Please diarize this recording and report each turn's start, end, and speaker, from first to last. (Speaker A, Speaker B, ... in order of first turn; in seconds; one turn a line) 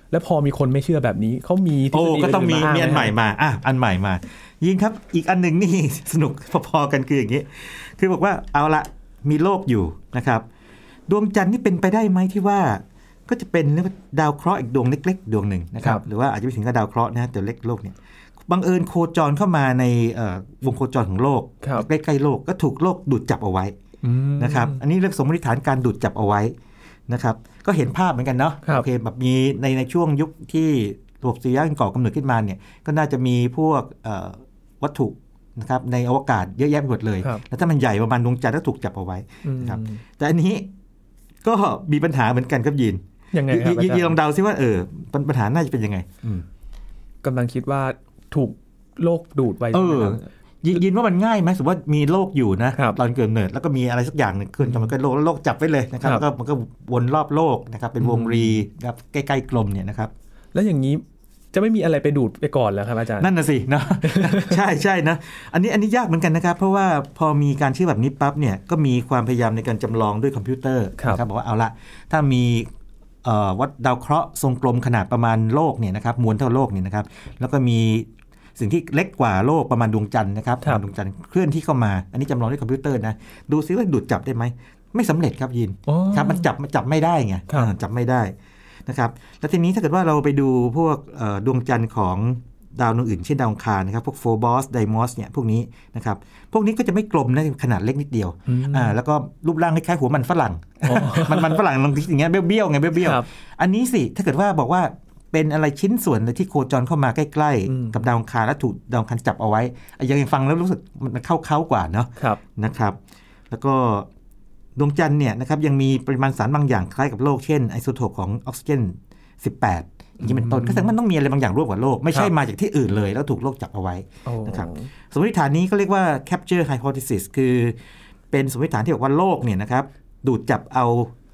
Speaker A: 0.1-3.1
Speaker B: 1.9-10.4
Speaker B: 11.1-17.9
Speaker B: 18.5-23.8
Speaker A: 24.0-24.8
Speaker B: 24.4-26.5
Speaker B: 27.1-40.7
Speaker A: 39.4-40.0
Speaker B: 41.4-46.5
Speaker A: 43.3-44.2
Speaker A: 47.2-50.2
Speaker B: 49.7-60.1
Speaker A: 54.6-54.9
Speaker A: 58.0-58.6
Speaker A: 60.5-61.0
Speaker A: 61.5-63.3
Speaker B: 63.2-72.7
Speaker A: 64.0-64.6
Speaker B: 73.2-88.3
Speaker A: 85.9-86.5
Speaker B: 88.8-113.0
Speaker A: 98.5-99.0
Speaker A: 100.8-101.6
Speaker A: 103.0-103.3
Speaker A: 107.7-108.0
Speaker B: 113.5-114.1
Speaker B: 114.8-127.8
Speaker A: 120.2-120.9
Speaker A: 124.2-124.9
Speaker B: 128.3-131.1